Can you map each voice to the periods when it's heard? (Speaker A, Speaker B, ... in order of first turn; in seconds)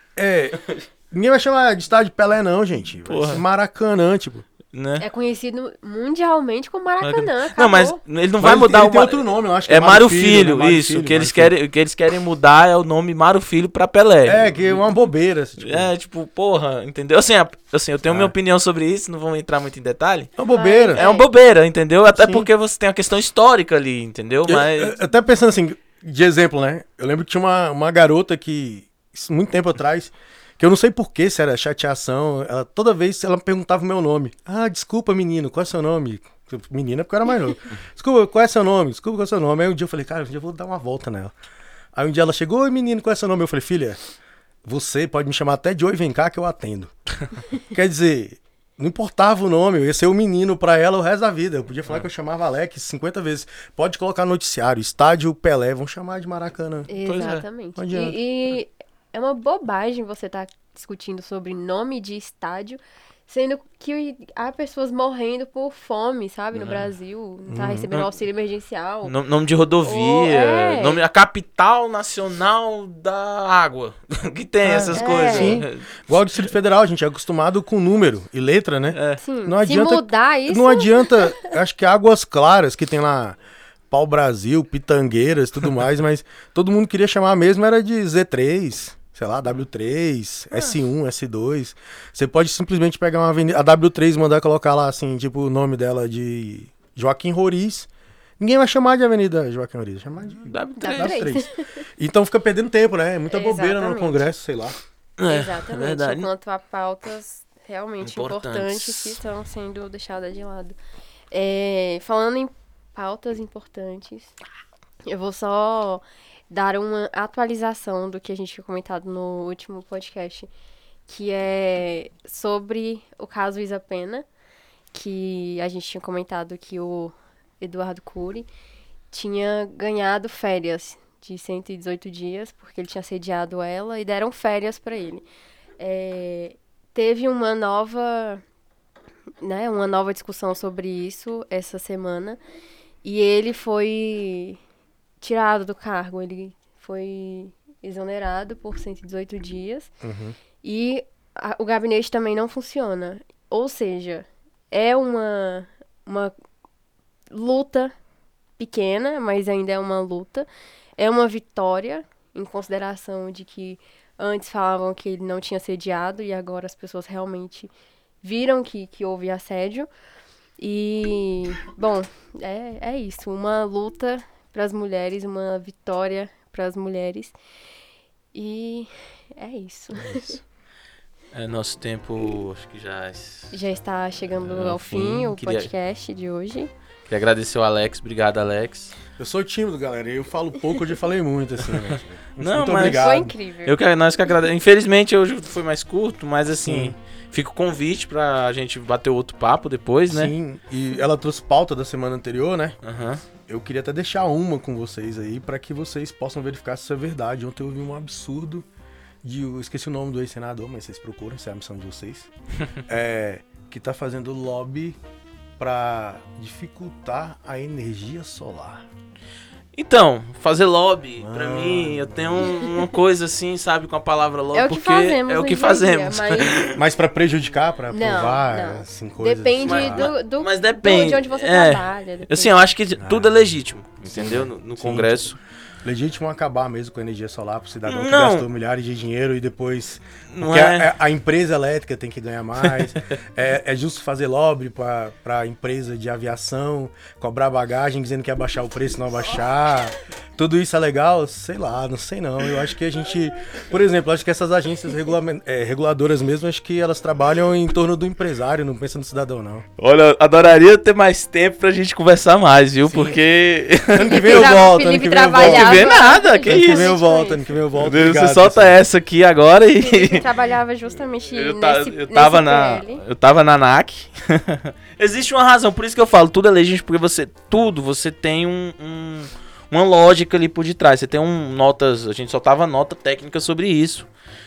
Speaker A: 0.1-4.5, 8.4-11.5, 14.2-15.9, 18.1-18.3, 20.4-21.0, 22.1-22.5, 24.4-41.3, 41.9-44.0, 44.6-46.9, 47.7-56.9, 57.8-58.2, 67.5-67.9, 74.6-83.4, 83.9-104.8, 150.0-150.3, 189.2-193.3, 196.6-196.9, 200.1-202.8, 203.4-208.6, 209.2-212.3, 212.8-215.0, 215.6-218.8, 221.2-222.6, 226.7-230.1, 233.0-233.4, 234.0-235.3, 235.8-259.6, 262.9-263.2, 263.9-268.8
Speaker B: 3.0-3.4, 4.7-5.0, 7.0-14.9, 15.6-20.4, 20.9-24.9, 57.0-57.4, 66.5-66.9, 67.9-68.2, 69.0-76.1, 78.9-79.2, 100.4-101.3, 105.2-106.3, 108.0-109.2, 181.3-183.5, 184.4-185.7, 187.1-188.9, 191.7-200.3, 202.8-203.2, 219.7-226.8, 229.6-235.4, 237.8-238.5, 240.3-240.9, 259.8-264.7, 265.4-266.9, 267.8-270.3, 271.3-284.1
Speaker C: 5.0-8.0, 20.5-21.3, 56.9-69.1, 69.8-71.0, 74.9-75.6, 79.2-81.5, 100.8-101.8, 103.3-104.2, 105.3-110.8, 111.3-114.3, 115.0-120.5, 121.1-124.2, 124.9-128.5, 129.1-135.2, 135.8-138.4, 139.4-142.4, 143.0-144.6, 145.2-149.9, 150.6-156.3, 157.3-157.9, 158.6-167.7, 168.2-169.9, 170.6-177.3, 178.3-180.4, 183.5-186.7, 192.8-193.8, 224.5-226.6, 227.9-232.5, 264.0-267.4, 269.8-273.0